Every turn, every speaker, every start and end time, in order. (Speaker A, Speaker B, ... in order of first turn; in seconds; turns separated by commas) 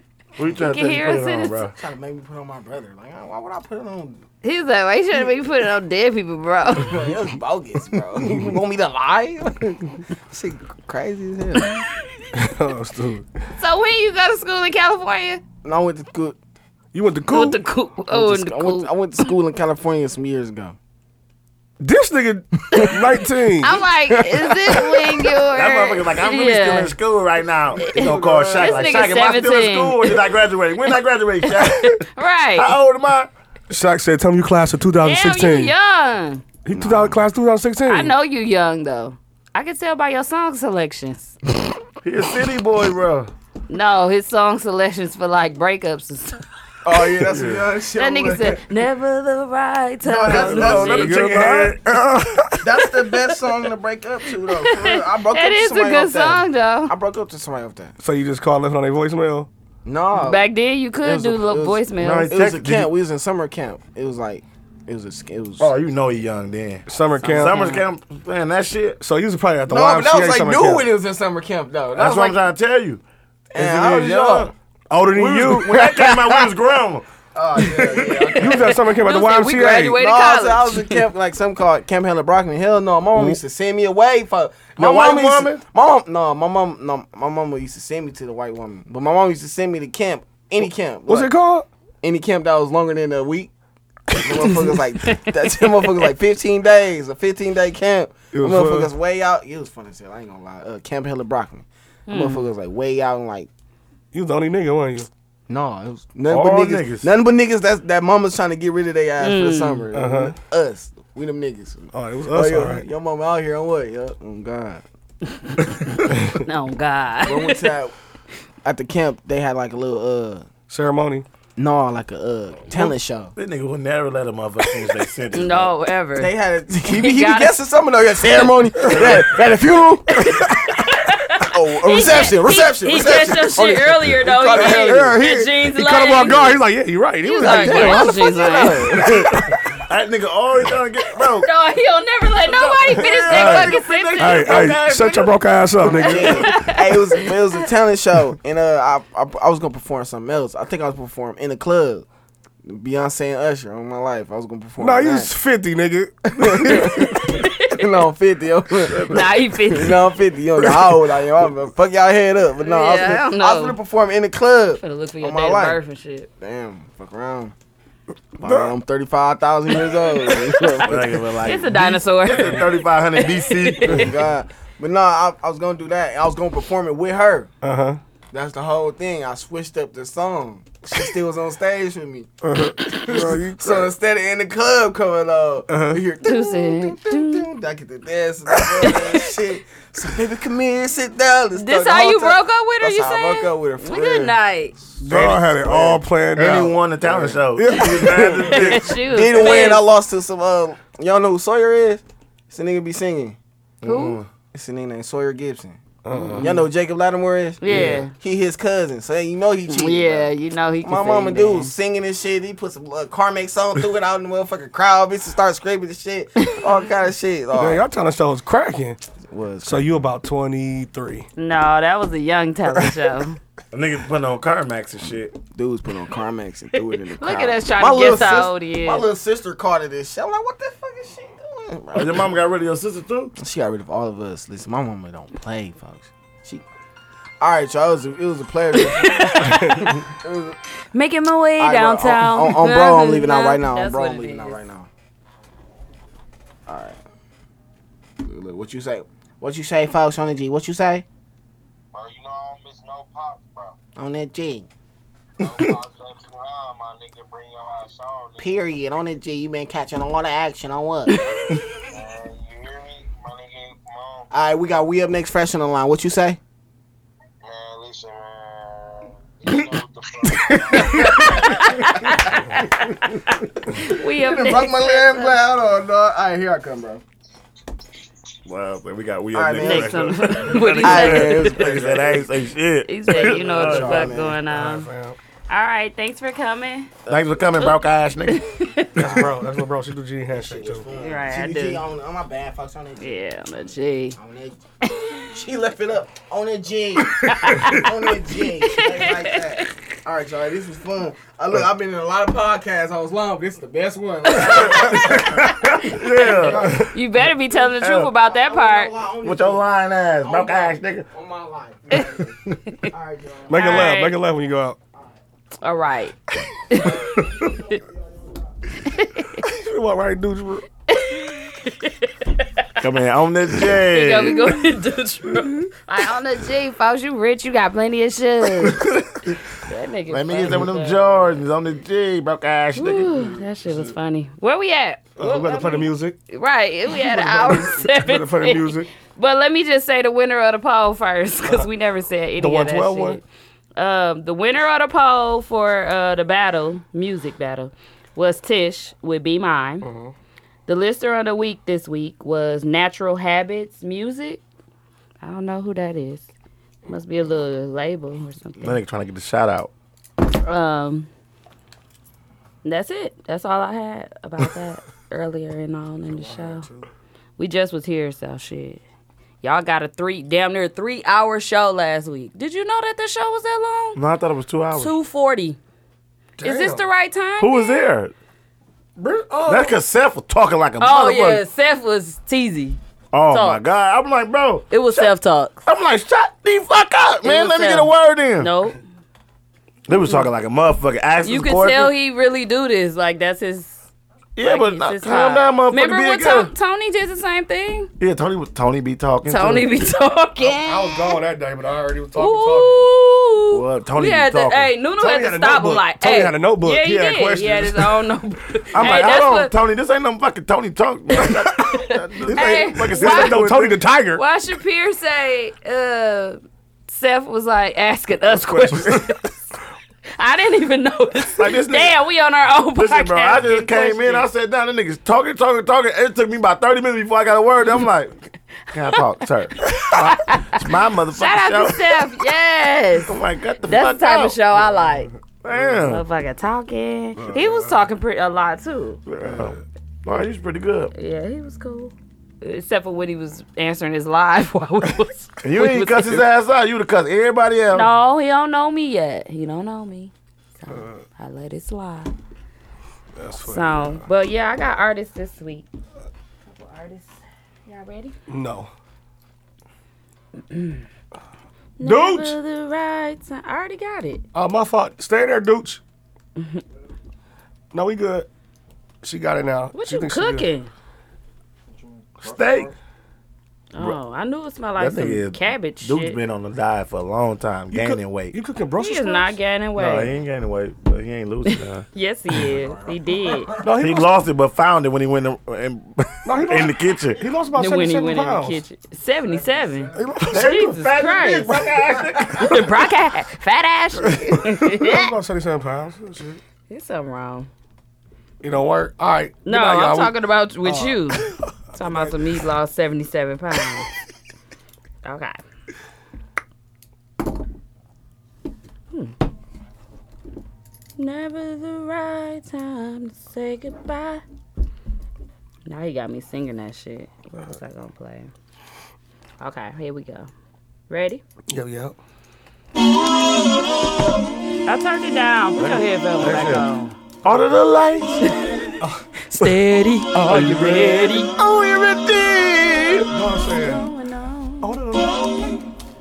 Speaker A: 0.4-1.8, Speaker B: 0.6-1.6, Speaker C: 1.8-4.2, Speaker B: 4.4-7.0, Speaker C: 6.8-11.8, Speaker D: 8.2-8.5, Speaker D: 12.3-13.3, Speaker B: 13.6-15.4, Speaker C: 15.6-16.4, Speaker D: 16.9-17.6, Speaker B: 17.3-18.9, Speaker C: 18.1-20.8, Speaker D: 21.8-23.8, Speaker B: 23.6-27.0, Speaker C: 24.1-25.3, Speaker A: 25.5-33.3, Speaker C: 27.8-29.1, Speaker B: 27.8-30.2, Speaker B: 31.5-32.7, Speaker D: 33.7-35.7, Speaker B: 35.0-36.4, Speaker D: 36.6-38.1, Speaker C: 36.7-37.2, Speaker B: 37.9-41.4, Speaker A: 42.0-43.3, Speaker B: 43.7-46.4, Speaker C: 46.8-48.6, Speaker A: 47.2-47.6, Speaker B: 48.0-51.2, Speaker A: 50.1-52.1, Speaker C: 50.1-51.0, Speaker D: 50.6-52.7, Speaker C: 52.6-57.9, Speaker B: 54.5-56.9, Speaker D: 58.0-59.5, Speaker C: 59.9-60.5, Speaker B: 60.1-62.3, Speaker C: 61.0-65.7, Speaker A: 62.0-62.9, Speaker A: 65.6-69.0, Speaker D: 66.9-67.7, Speaker B: 67.5-67.8, Speaker D: 69.0-70.9, Speaker C: 69.7-72.4, Speaker A: 71.9-73.0, Speaker C: 73.5-74.5, Speaker A: 73.5-74.5, Speaker D: 74.9-75.8, Speaker A: 75.1-77.0, Speaker C: 75.7-76.4, Speaker C: 77.3-78.8, Speaker A: 77.6-78.5, Speaker D: 78.4-80.0, Speaker B: 79.0-81.0, Speaker C: 80.0-91.3, Speaker D: 83.1-83.4, Speaker A: 84.8-85.6, Speaker D: 91.1-91.7, Speaker C: 92.0-93.5, Speaker C: 94.1-103.5, Speaker D: 94.2-94.6, Speaker B: 95.0-95.3, Speaker D: 98.3-98.9, Speaker B: 102.1-102.5, Speaker D: 104.1-105.1, Speaker C: 105.5-114.8, Speaker A: 106.3-107.1, Speaker B: 109.2-109.9, Speaker D: 109.9-110.4, Speaker D: 111.9-112.9, Speaker D: 116.1-116.4, Speaker B: 116.5-117.7, Speaker C: 117.2-118.0, Speaker C: 118.6-120.5, Speaker D: 120.7-121.3, Speaker C: 121.6-123.3, Speaker A: 123.4-125.7, Speaker B: 125.3-126.3, Speaker C: 126.2-130.5, Speaker B: 126.9-127.6, Speaker B: 130.2-136.6, Speaker C: 131.4-135.2, Speaker D: 134.5-139.6, Speaker B: 137.2-139.1, Speaker C: 137.4-138.6, Speaker A: 137.7-138.0, Speaker A: 139.0-141.5, Speaker B: 141.4-144.7, Speaker A: 142.4-145.4, Speaker D: 142.9-146.6, Speaker C: 145.8-152.1, Speaker B: 146.2-147.4, Speaker C: 152.7-155.3, Speaker D: 154.8-157.2, Speaker C: 156.4-165.8, Speaker B: 157.2-157.9, Speaker B: 159.1-160.1, Speaker B: 162.6-163.8, Speaker B: 164.8-166.3, Speaker C: 166.4-167.5, Speaker C: 168.4-171.2, Speaker D: 168.4-168.8, Speaker A: 170.8-174.1, Speaker B: 171.4-174.1, Speaker C: 173.8-177.5, Speaker D: 177.6-178.0, Speaker C: 178.3-182.3, Speaker D: 182.4-183.9, Speaker C: 182.9-194.4, Speaker D: 185.7-186.0, Speaker B: 186.2-187.5, Speaker B: 188.8-189.1, Speaker B: 191.5-194.8, Speaker D: 195.0-198.7, Speaker A: 195.1-199.0, Speaker C: 198.1-203.4, Speaker B: 198.5-199.8, Speaker A: 203.8-204.3, Speaker B: 203.8-204.2, Speaker C: 204.5-205.8, Speaker D: 206.1-206.7, Speaker C: 206.4-210.3, Speaker B: 207.6-208.1, Speaker D: 207.7-208.0, Speaker B: 209.7-211.7, Speaker C: 210.8-217.8, Speaker D: 217.6-219.0, Speaker C: 219.3-219.9, Speaker D: 219.6-221.3, Speaker B: 221.4-223.4, Speaker D: 222.7-222.9, Speaker A: 223.7-225.4, Speaker C: 225.6-232.3, Speaker B: 227.2-229.1, Speaker A: 231.9-233.3, Speaker C: 233.4-236.6, Speaker C: 237.4-240.6, Speaker B: 239.0-240.0, Speaker D: 239.4-239.9, Speaker B: 240.9-244.6, Speaker C: 241.6-244.9, Speaker C: 246.7-247.0, Speaker C: 248.2-251.1, Speaker E: 251.9-253.8, Speaker C: 254.0-254.7, Speaker E: 255.4-258.8, Speaker C: 258.4-261.2, Speaker E: 261.8-264.3, Speaker C: 264.3-266.4, Speaker E: 267.4-271.6, Speaker C: 270.8-271.3, Speaker B: 271.2-275.4, Speaker C: 274.0-277.0, Speaker A: 278.5-284.2, Speaker C: 279.3-282.2, Speaker B: 279.6-281.9, Speaker B: 282.9-284.9, Speaker C: 283.1-284.4, Speaker D: 284.5-285.2, Speaker B: 285.5-286.9, Speaker A: 287.1-289.2, Speaker B: 288.3-289.0, Speaker D: 289.0-290.9, Speaker C: 289.0-289.3, Speaker C: 290.3-293.4, Speaker B: 291.0-291.8, Speaker B: 293.0-294.2, Speaker C: 294.1-294.6, Speaker C: 295.3-305.6, Speaker B: 297.1-297.9, Speaker B: 298.6-299.6, Speaker A: 304.4-307.0, Speaker B: 304.6-304.9, Speaker B: 305.6-308.9, Speaker D: 306.4-306.9, Speaker A: 307.6-308.1, Speaker C: 308.3-309.7, Speaker A: 309.2-311.1, Speaker C: 310.2-312.3, Speaker C: 312.9-313.9, Speaker D: 313.5-314.8, Speaker B: 313.5-314.2, Speaker B: 315.6-317.7, Speaker B: 318.9-319.4, Speaker D: 319.4-320.7, Speaker B: 320.9-322.8, Speaker A: 322.8-324.6, Speaker B: 323.9-328.9, Speaker A: 328.6-329.4, Speaker B: 329.6-331.4, Speaker A: 330.1-333.4, Speaker B: 332.8-343.2, Speaker D: 335.2-336.2, Speaker D: 336.9-338.9, Speaker D: 342.4-343.2, Speaker B: 343.8-349.9, Speaker D: 349.8-350.1, Speaker B: 350.7-354.4, Speaker B: 355.2-356.3, Speaker B: 356.9-358.8, Speaker A: 358.6-359.7, Speaker B: 360.4-361.1, Speaker B: 362.6-366.7, Speaker D: 366.1-366.9, Speaker B: 367.4-368.8, Speaker B: 369.4-374.0, Speaker A: 373.9-374.9, Speaker B: 374.8-375.6, Speaker D: 376.4-376.9, Speaker B: 376.4-377.8, Speaker A: 377.4-378.1, Speaker D: 379.0-379.8, Speaker A: 379.4-381.4, Speaker B: 380.8-382.8, Speaker A: 383.1-385.1, Speaker B: 383.3-383.6, Speaker B: 384.7-385.6, Speaker A: 385.6-388.5, Speaker B: 387.2-388.8, Speaker A: 389.9-391.9, Speaker B: 391.2-393.8, Speaker A: 394.4-396.5, Speaker B: 394.4-397.9, Speaker A: 398.0-399.7, Speaker B: 399.3-401.2, Speaker D: 400.4-402.9, Speaker B: 402.2-409.5, Speaker A: 403.5-404.7, Speaker D: 405.0-408.1, Speaker A: 408.7-413.8, Speaker D: 411.2-411.5, Speaker B: 411.6-413.4, Speaker D: 412.2-414.2, Speaker B: 414.1-419.3, Speaker D: 418.3-419.1, Speaker B: 420.2-424.3, Speaker A: 421.3-422.0, Speaker A: 422.8-428.1, Speaker A: 428.7-432.0, Speaker B: 429.6-430.6, Speaker B: 431.2-435.1, Speaker A: 433.1-434.4, Speaker A: 435.4-436.0, Speaker B: 435.8-439.0, Speaker D: 437.2-437.8, Speaker A: 439.1-440.9, Speaker D: 439.2-439.6, Speaker B: 440.9-446.2, Speaker A: 445.4-447.9, Speaker B: 447.7-452.1, Speaker D: 450.7-451.0, Speaker D: 453.1-454.1, Speaker B: 453.5-455.7, Speaker B: 456.4-457.1, Speaker B: 457.7-458.1, Speaker D: 458.3-458.7, Speaker B: 460.5-460.8, Speaker B: 461.8-464.2, Speaker D: 461.8-462.4, Speaker D: 464.3-465.8, Speaker D: 467.7-468.3, Speaker D: 469.0-470.5, Speaker B: 469.7-470.7, Speaker A: 472.2-472.8, Speaker B: 473.7-476.2, Speaker A: 474.8-478.4, Speaker D: 477.7-479.4, Speaker B: 478.8-480.1, Speaker A: 479.8-481.9, Speaker B: 481.9-483.6, Speaker D: 482.5-484.1, Speaker A: 483.6-487.2, Speaker D: 486.2-488.6, Speaker B: 487.5-491.6, Speaker D: 489.9-490.7, Speaker A: 490.3-492.9, Speaker B: 492.4-495.1, Speaker D: 494.1-496.4, Speaker B: 496.7-497.5, Speaker D: 498.4-502.2, Speaker B: 499.4-503.9, Speaker B: 505.0-505.4, Speaker B: 511.0-514.2, Speaker B: 515.7-518.3, Speaker B: 519.4-520.3, Speaker B: 520.9-521.2, Speaker D: 521.5-522.0, Speaker B: 524.7-527.0, Speaker A: 525.6-526.6, Speaker A: 527.2-528.1, Speaker B: 528.2-528.6, Speaker D: 528.8-529.5, Speaker B: 529.2-531.3, Speaker D: 530.3-531.2, Speaker A: 531.4-533.1, Speaker D: 533.1-533.9, Speaker B: 533.5-534.7, Speaker D: 534.6-535.6